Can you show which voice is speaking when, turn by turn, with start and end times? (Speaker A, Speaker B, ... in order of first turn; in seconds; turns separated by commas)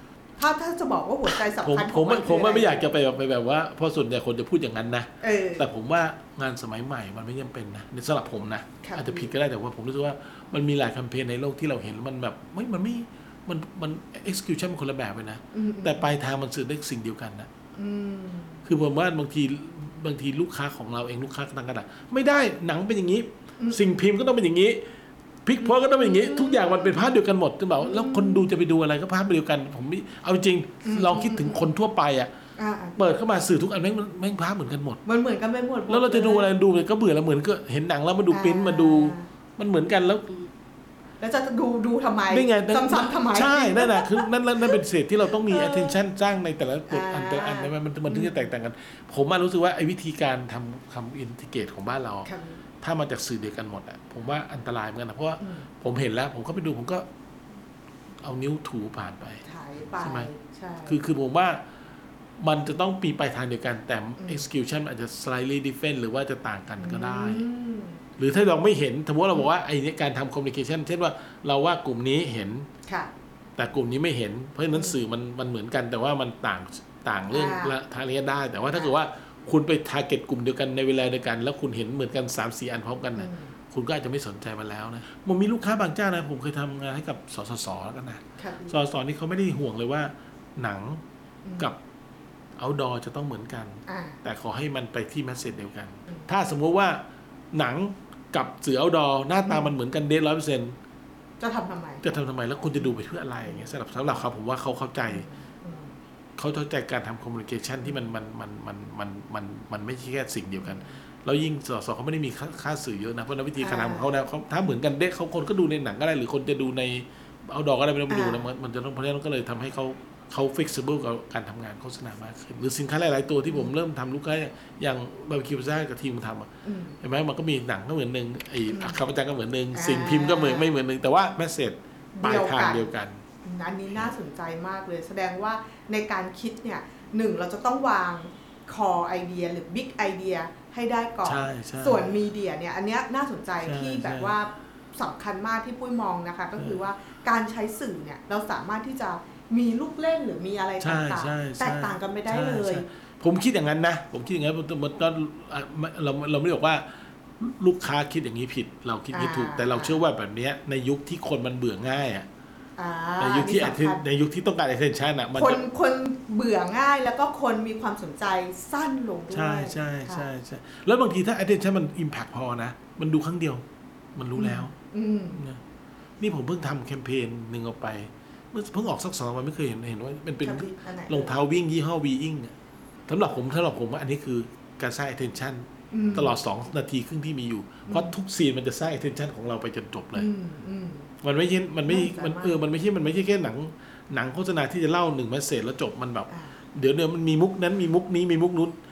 Speaker A: 0.4-2.8, Speaker B: 1.4-17.5, Speaker A: 5.2-5.7, Speaker A: 8.8-9.3, Speaker A: 15.5-16.1, Speaker A: 17.8-18.6, Speaker B: 18.6-24.8, Speaker A: 23.6-24.0, Speaker B: 25.4-32.3, Speaker A: 25.6-27.1, Speaker A: 27.8-28.4, Speaker A: 30.8-31.6, Speaker A: 32.6-33.0, Speaker B: 33.0-35.0, Speaker A: 35.0-36.5, Speaker B: 35.9-40.5, Speaker A: 38.3-39.3, Speaker A: 41.2-44.8, Speaker B: 42.3-57.0, Speaker A: 45.4-46.0, Speaker A: 46.9-48.5, Speaker A: 52.2-52.6, Speaker A: 55.4-55.7, Speaker B: 58.2-59.4, Speaker A: 59.4-61.0, Speaker B: 60.0-60.3, Speaker B: 60.9-61.6, Speaker B: 62.4-67.4, Speaker A: 64.2-64.4, Speaker A: 66.8-68.0, Speaker B: 68.2-72.7, Speaker A: 72.8-73.1, Speaker B: 73.6-91.0, Speaker A: 74.7-75.0, Speaker A: 77.3-77.7, Speaker A: 78.7-79.0, Speaker A: 83.1-83.5, Speaker A: 88.4-88.8, Speaker A: 91.4-91.7, Speaker B: 92.6-100.7, Speaker A: 93.9-94.2, Speaker A: 99.5-99.7, Speaker A: 101.4-102.2, Speaker B: 102.0-105.3, Speaker A: 102.8-103.7, Speaker A: 105.1-106.0, Speaker B: 106.4-126.5, Speaker A: 110.6-111.0, Speaker A: 113.6-114.1, Speaker A: 118.1-118.5, Speaker A: 123.5-123.7, Speaker A: 126.6-127.0, Speaker B: 127.0-133.2, Speaker A: 128.7-129.0, Speaker A: 129.7-130.7, Speaker A: 132.2-132.9, Speaker A: 133.4-152.8, Speaker B: 141.2-142.1, Speaker B: 143.6-144.3, Speaker B: 146.6-146.8, Speaker B: 150.8-162.3, Speaker A: 159.1-160.0, Speaker A: 162.8-164.0, Speaker B: 163.2-165.7, Speaker A: 165.3-170.3, Speaker B: 169.3-173.6, Speaker B: 174.1-174.7, Speaker A: 174.3-175.4, Speaker B: 175.3-175.6, Speaker B: 176.2-182.5, Speaker A: 180.4-181.3, Speaker B: 183.1-190.3, Speaker A: 185.9-186.4, Speaker A: 187.8-188.1, Speaker A: 190.1-191.1, Speaker B: 191.2-198.8, Speaker A: 191.8-192.6, Speaker A: 196.3-196.6